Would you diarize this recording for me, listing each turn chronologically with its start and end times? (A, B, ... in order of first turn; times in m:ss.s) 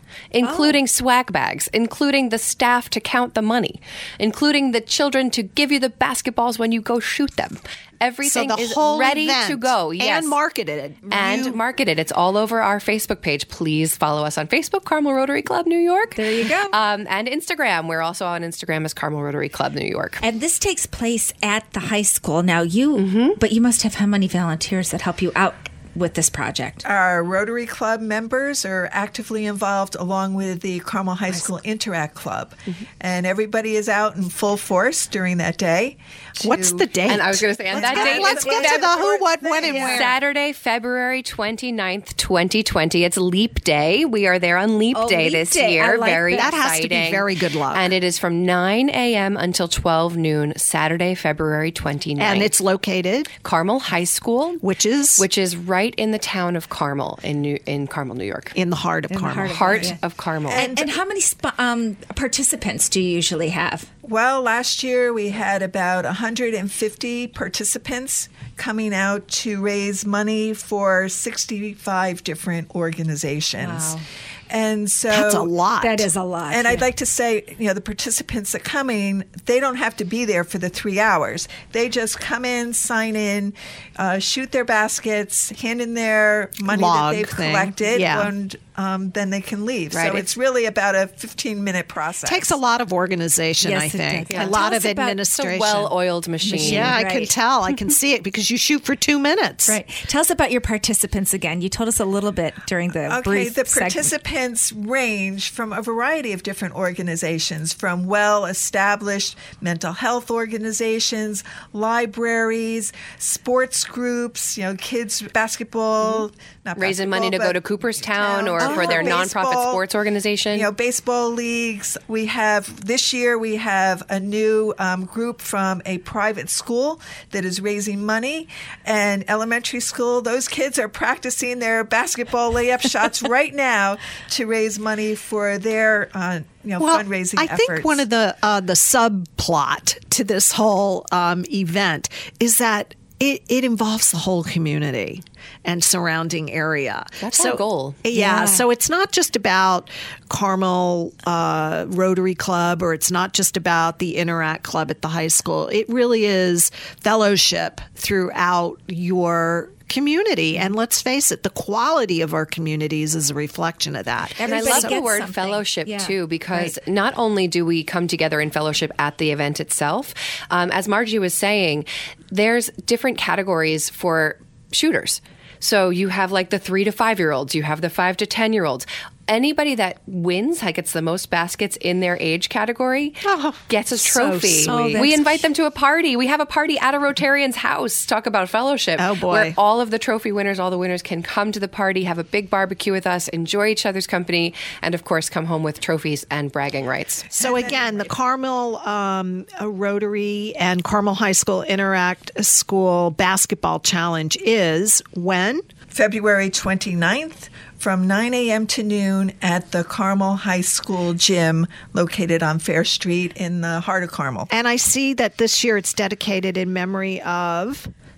0:00.3-0:10.4 A
0:00.4-0:00.8 B
0:08.2-0:11.6 C
0:11.1-0:20.2 A
0:16.2-0:16.7 B
0:20.2-0:26.8 B
0:22.9-0:23.4 A
0:26.8-0:37.2 D
0:36.4-0:40.2 C
0:37.1-0:39.0 A
0:37.7-0:40.0 D
0:39.7-0:40.0 B
0:39.8-0:52.5 A
0:44.9-0:46.5 B
0:46.3-0:47.9 C
0:52.2-0:53.3 C
0:53.4-0:54.6 A
0:54.6-0:55.2 C
0:55.2-0:58.6 A
0:58.6-0:59.9 C
0:59.1-1:00.0 B
0:59.5-1:00.7 A
1:00.5-1:00.9 D
1:00.5-1:03.9 B
1:04.0-1:15.5 D
1:13.6-1:14.0 B
1:15.1-1:16.1 C
1:15.8-1:16.9 B
1:16.5-1:32.6 D
1:26.7-1:28.3 C
1:29.9-1:30.3 A
1:32.2-1:35.9 C
1:33.6-1:35.2 B
1:34.3-1:34.6 A
1:35.3-1:37.0 A
1:36.4-1:37.3 B
1:36.6-1:39.8 C
1:39.7-1:44.1 B
1:43.0-1:59.8 D
1:56.8-2:00.7 A
1:58.6-1:59.1 B
2:00.5-2:18.0 D
2:16.8-2:45.0 C
2:27.2-2:28.0 A
2:28.1-2:28.7 B
2:44.4-2:46.7 B
2:44.5-3:17.4 A
3:03.2-3:03.6 C
3:04.0-3:05.4 B
3:04.5-3:05.1 C
3:09.0-3:09.6 C
3:17.4-3:25.6 C
3:25.9-3:34.5 D
3:34.5-3:37.9 C